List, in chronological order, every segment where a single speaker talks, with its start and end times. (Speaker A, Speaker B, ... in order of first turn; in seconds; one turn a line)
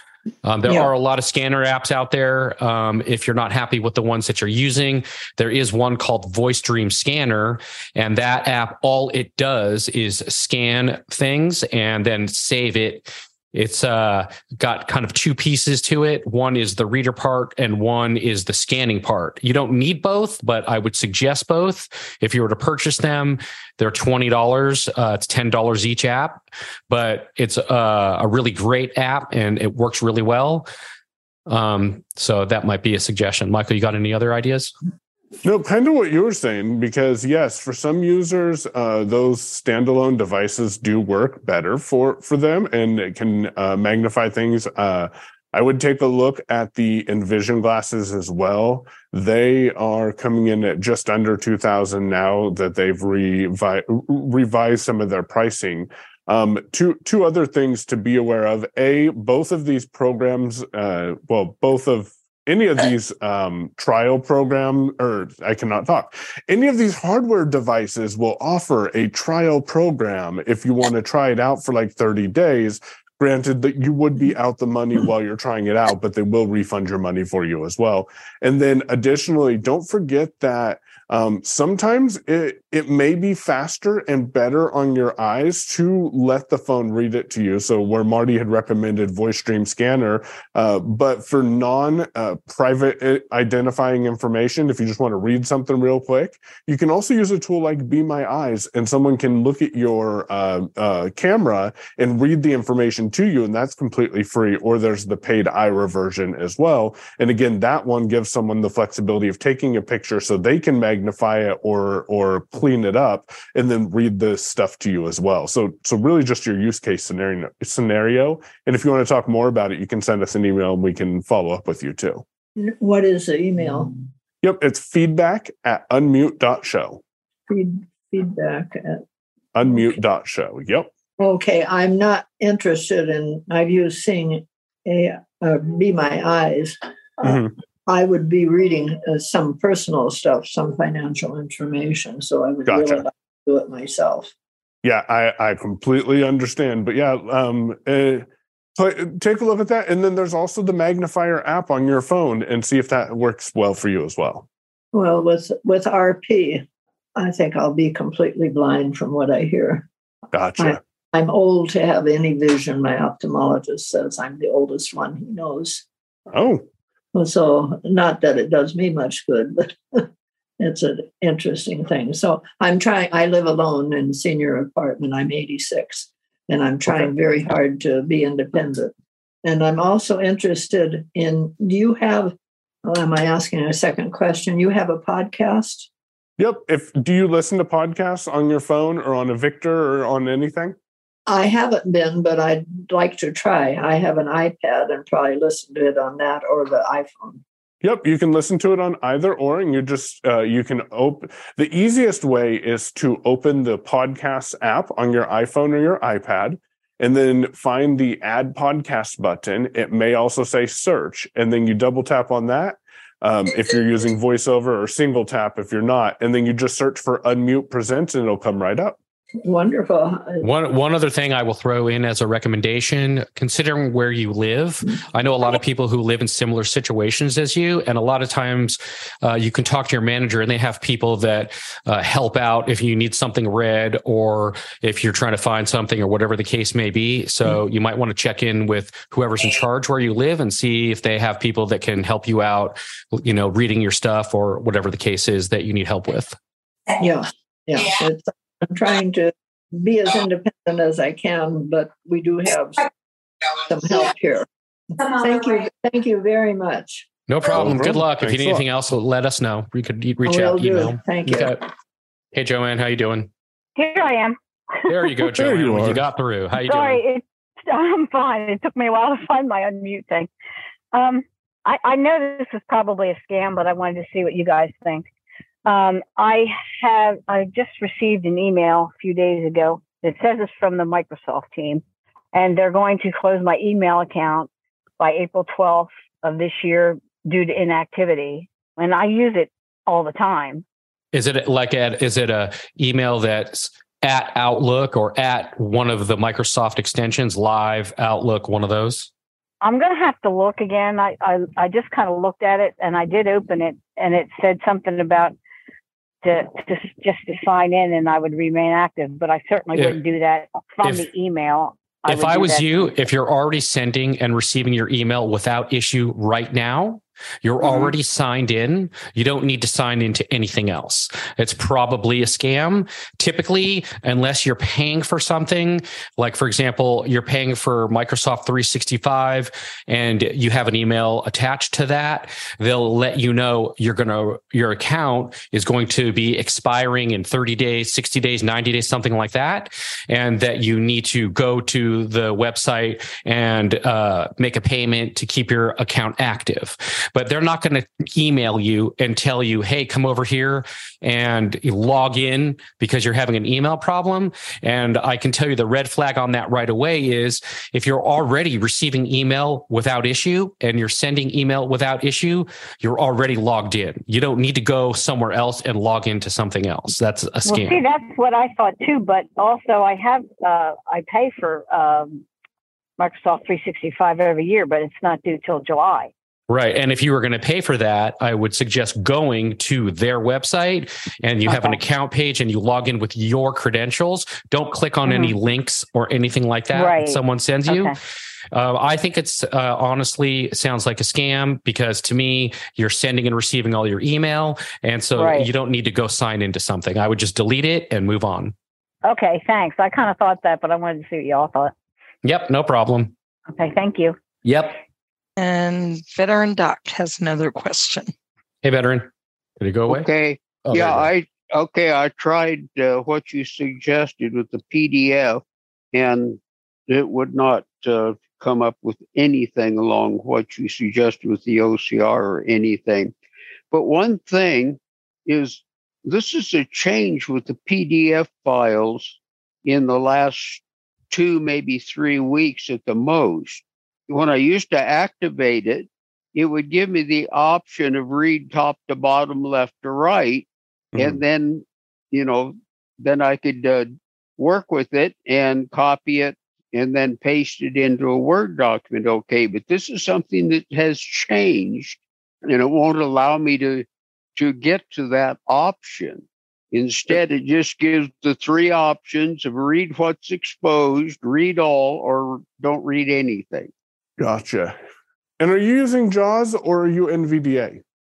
Speaker A: 0.4-30.7
Speaker A: 31.5-34.7
Speaker B: 35.4-122.2
Speaker C: 122.6-123.9
Speaker B: 124.4-127.0
Speaker C: 127.5-129.0
Speaker B: 129.6-130.9
Speaker C: 129.6-129.9
Speaker C: 131.2-144.3
Speaker B: 137.2-137.5
Speaker B: 142.7-143.1
Speaker B: 144.8-148.3
Speaker B: 148.8-154.5
Speaker C: 154.9-156.6
Speaker C: 157.2-159.9
Speaker B: 160.3-160.8
Speaker C: 160.6-165.8
Speaker B: 166.3-166.6
Speaker C: 167.2-170.1
Speaker C: 170.6-178.9
Speaker B: 176.9-177.1
Speaker C: 179.4-182.3
Speaker C: 182.9-185.9
Speaker B: 186.4-190.8
Speaker C: 191.3-197.4
Speaker B: 197.8-219.0
Speaker C: 219.4-220.4
Speaker A: 220.4-246.4
Speaker C: 247.0-252.9
Speaker C: 253.7-254.5
Speaker C: 255.0-257.1
Speaker A: 257.3-261.6
Speaker B: 257.5-258.7
Speaker C: 260.2-261.6
Speaker A: 262.3-263.3
Speaker D: 263.8-264.4
Speaker A: 264.9-267.0
Speaker B: 265.3-266.1
Speaker D: 266.5-270.3
Speaker D: 270.9-275.1
Speaker D: 275.7-290.6
Speaker A: 291.1-299.1
Speaker D: 299.6-305.4
Speaker D: 306.2-313.0
Speaker A: 309.7-310.0
Speaker A: 310.8-311.1
Speaker A: 312.1-367.8
Speaker B: 317.6-317.9
Speaker D: 367.4-372.3
Speaker D: 373.0-376.1
Speaker A: 376.5-387.9
Speaker D: 381.4-381.8
Speaker D: 385.1-385.4
Speaker D: 386.7-388.0
Speaker A: 388.5-398.5
Speaker D: 395.1-395.5
Speaker D: 399.1-401.7
Speaker A: 402.2-403.1
Speaker D: 403.5-404.2
Speaker A: 404.4-404.7
Speaker E: 405.4-408.1
Speaker A: 408.6-410.1
Speaker F: 409.9-423.1
Speaker A: 410.6-411.1
Speaker F: 423.7-463.7
Speaker B: 440.9-441.2
Speaker B: 464.2-464.8
Speaker B: 465.4-467.8